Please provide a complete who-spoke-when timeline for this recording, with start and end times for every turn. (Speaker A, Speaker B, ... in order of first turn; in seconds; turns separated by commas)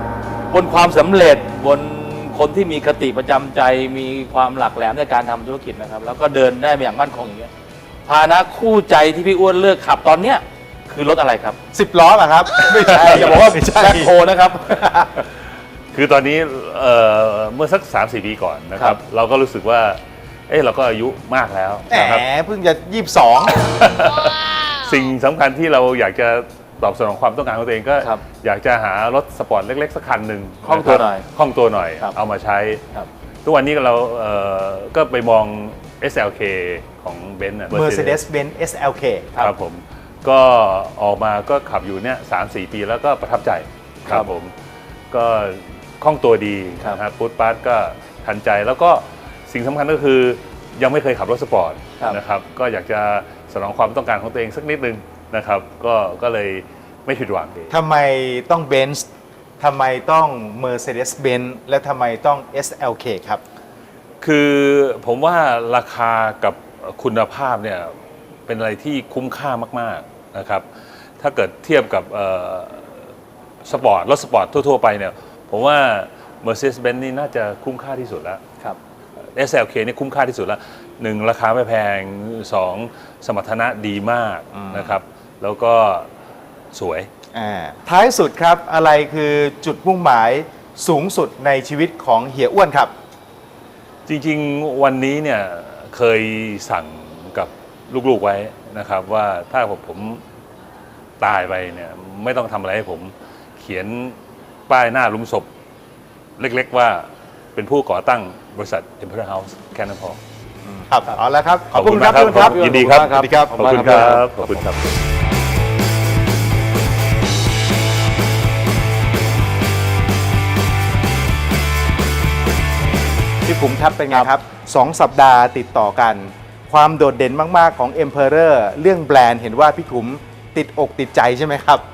Speaker A: 0.5-7.5, Speaker A: 8.1-11.6, Speaker B: 11.7-14.1, Speaker A: 12.6-14.9, Speaker B: 14.7-15.1, Speaker C: 15.9-22.2, Speaker B: 21.9-23.6, Speaker C: 23.6-32.8, Speaker A: 30.6-31.2, Speaker C: 33.4-38.2, Speaker B: 37.7-39.3, Speaker C: 39.4-44.5, Speaker C: 45.1-57.8, Speaker B: 57.7-59.1, Speaker B: 59.6-63.4, Speaker C: 64.2-67.9, Speaker C: 68.5-70.7, Speaker C: 71.2-73.1, Speaker C: 73.6-78.4, Speaker C: 79.3-86.1, Speaker B: 84.5-84.9, Speaker C: 86.7-87.1, Speaker B: 87.3-92.9, Speaker C: 94.0-100.2, Speaker C: 101.2-105.5, Speaker C: 106.4-110.2, Speaker B: 110.6-114.2, Speaker C: 111.7-114.8, Speaker A: 111.7-114.3, Speaker B: 123.4-131.8